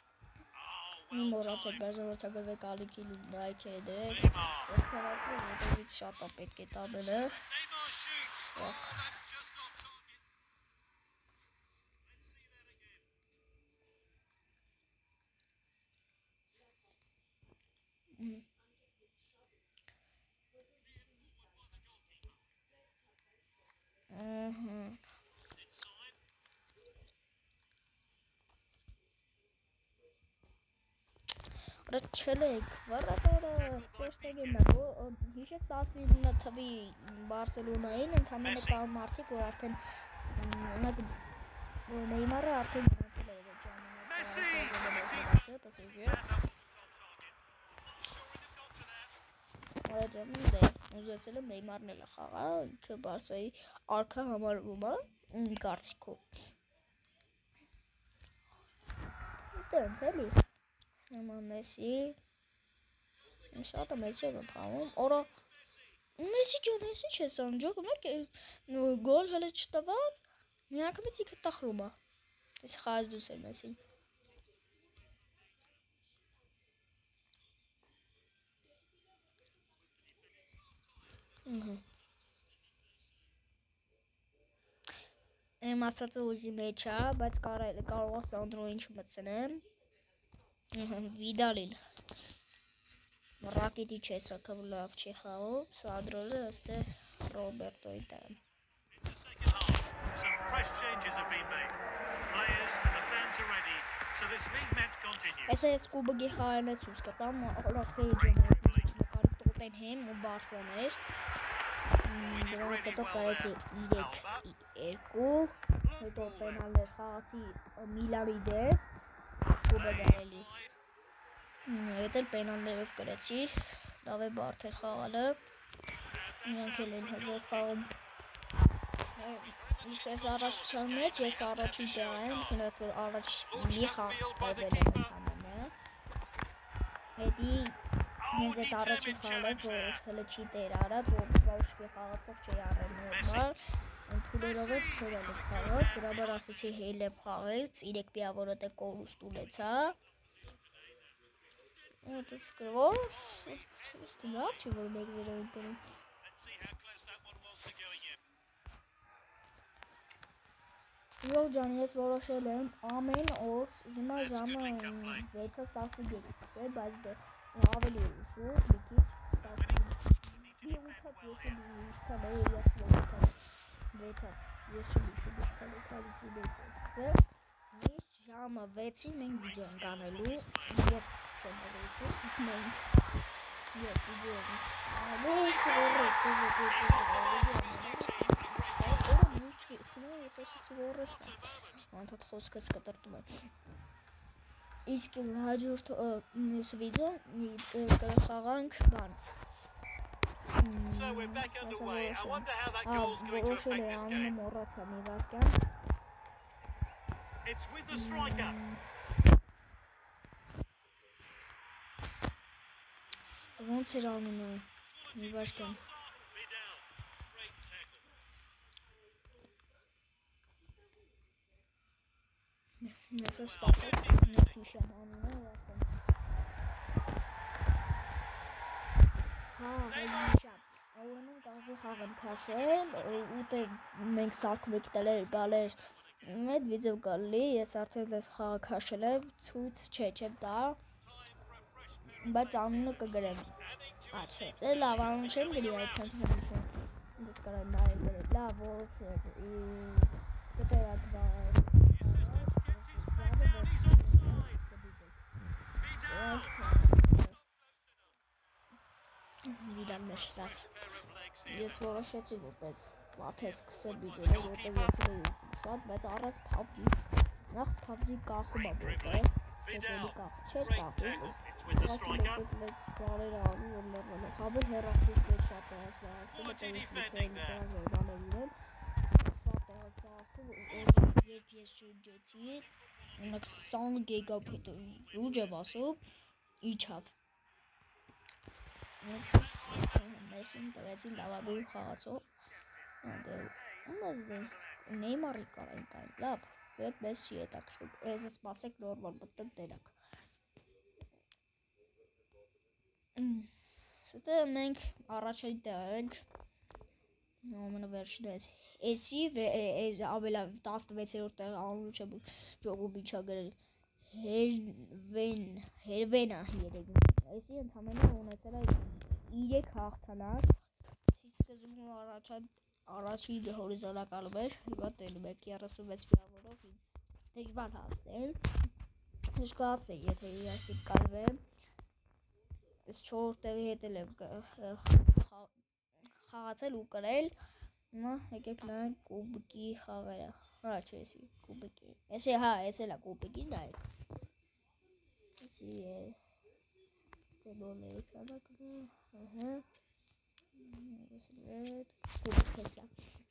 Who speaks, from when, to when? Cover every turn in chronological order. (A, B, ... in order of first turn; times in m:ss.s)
0:00.6-0:01.1 A
0:01.1-0:07.5 B
0:07.5-0:10.0 A
0:08.5-0:09.2 B
0:12.2-0:12.8 A
0:18.2-0:18.4 B
0:24.1-0:25.0 B
0:25.6-0:26.1 A
0:31.8-0:41.2 B
0:41.9-0:46.3 B
0:46.2-0:47.3 A
0:48.0-0:49.1 A
0:49.8-0:56.4 B
0:59.5-1:00.4 B
1:01.1-1:02.2 B
1:03.5-1:05.4 B
1:06.2-1:12.0 B
1:12.6-1:13.8 B
1:21.4-1:21.8 B
1:25.6-1:29.6 B
1:30.7-1:31.8 B
1:33.4-1:38.4 B
1:38.9-1:41.7 A
1:42.3-1:45.5 A
1:45.4-1:51.0 B
1:52.0-1:58.8 B
1:59.6-2:00.6 B
2:01.6-2:05.4 B
2:06.4-2:07.9 B
2:09.1-2:15.7 B
2:14.0-2:14.9 A
2:17.2-2:30.0 B
2:32.0-2:35.8 B
2:36.2-2:38.2 A
2:41.2-2:57.2 B
2:57.7-3:02.8 B
3:03.7-3:13.4 B
3:14.8-3:19.2 B
3:20.6-3:25.6 B
3:20.9-3:23.6 A
3:27.4-3:28.6 A
3:27.9-3:28.8 B
3:33.6-3:35.9 B
3:35.9-3:36.8 A
3:37.4-3:38.0 A
3:42.8-3:45.9 B
3:49.5-4:00.8 B
4:01.1-4:02.3 A
4:02.1-4:03.6 B
4:03.7-4:04.1 A
4:04.1-4:15.2 B
4:15.9-4:17.4 B
4:19.5-4:20.7 B
4:20.7-4:21.5 A
4:21.4-4:27.0 B
4:27.5-4:38.5 B
4:30.9-4:32.2 A
4:36.9-4:37.3 A
4:39.2-4:46.0 B
4:46.6-4:47.1 B
4:49.0-4:52.3 B
4:53.0-4:59.9 B
5:03.2-5:06.2 B
5:07.4-5:20.5 B
5:21.1-5:28.4 B
5:29.3-5:31.4 B
5:32.9-5:35.5 B
5:36.0-5:37.3 B
5:37.9-5:43.9 B
5:45.4-5:46.2 B
5:47.3-5:49.6 B
5:50.5-5:52.9 B